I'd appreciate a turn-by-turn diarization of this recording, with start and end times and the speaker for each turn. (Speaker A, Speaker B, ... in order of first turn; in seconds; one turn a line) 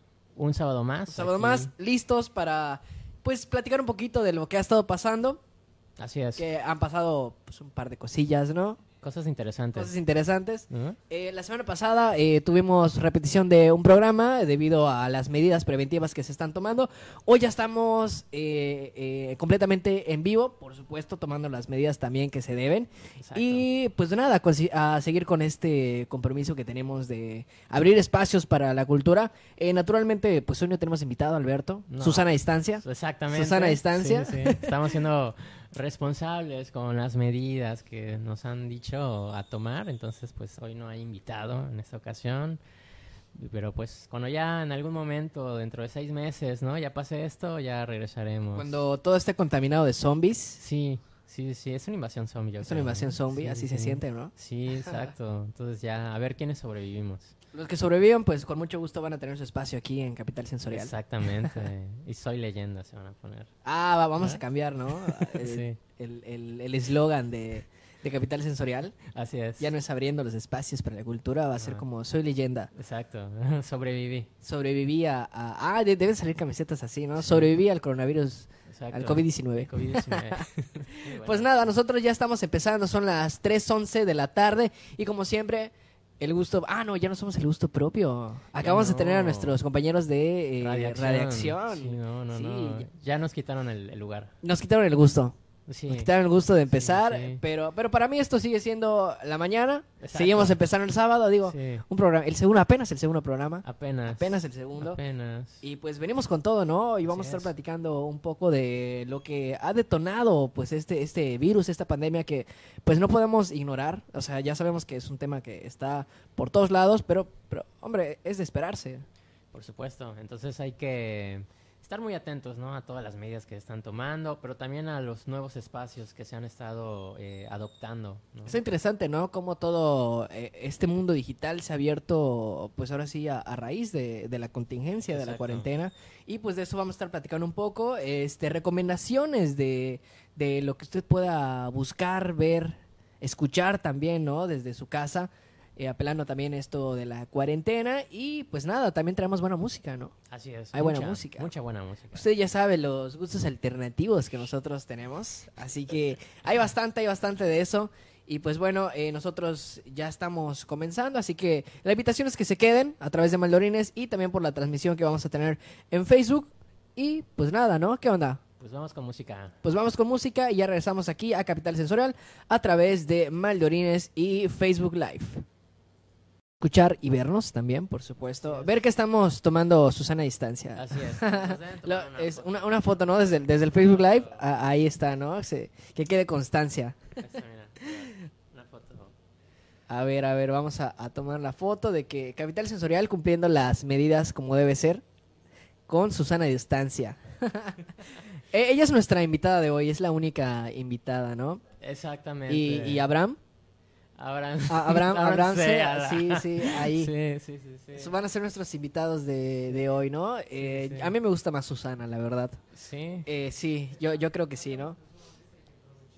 Speaker A: 0.4-1.7
Speaker B: 1.1-5.4
Speaker A: 6.0-6.5
Speaker B: 6.4-8.8
Speaker A: 9.0-9.9
Speaker B: 9.7-34.9
Speaker A: 10.7-11.0
Speaker A: 23.2-23.7
Speaker A: 31.9-32.3
Speaker A: 32.8-42.6
Speaker A: 43.3-48.8
Speaker B: 48.5-50.6
Speaker A: 50.6-57.4
Speaker B: 52.6-54.3
Speaker B: 57.5-60.9
Speaker A: 60.7-63.5
Speaker B: 63.6-69.0
Speaker A: 64.2-65.8
Speaker A: 69.1-69.7
Speaker B: 69.6-72.7
Speaker A: 71.6-71.8
Speaker A: 72.8-74.3
Speaker B: 74.4-92.9
Speaker A: 77.2-77.5
Speaker A: 78.7-81.5
Speaker A: 88.6-89.6
Speaker A: 90.6-94.3
Speaker B: 94.4-95.3
Speaker A: 95.7-96.1
Speaker B: 95.9-105.0
Speaker A: 96.7-97.4
Speaker A: 100.0-100.6
Speaker A: 101.5-101.8
Speaker A: 103.6-105.6
Speaker B: 105.6-119.0
Speaker A: 107.0-107.5
Speaker A: 119.5-128.6
Speaker B: 128.5-150.1
Speaker A: 135.1-135.7
Speaker A: 150.3-152.3
Speaker B: 150.7-151.5
Speaker B: 152.1-168.4
Speaker A: 168.6-169.6
Speaker B: 169.6-175.4
Speaker B: 176.6-187.2
Speaker A: 178.4-178.8
Speaker A: 180.7-183.0
Speaker A: 183.6-184.5
Speaker A: 187.2-189.2
Speaker B: 189.9-195.0
Speaker B: 195.9-201.6
Speaker A: 201.8-203.0
Speaker B: 202.5-203.4
Speaker A: 204.2-208.1
Speaker B: 204.7-207.1
Speaker B: 207.9-212.6
Speaker A: 210.6-211.2
Speaker A: 212.7-213.3
Speaker B: 213.3-215.0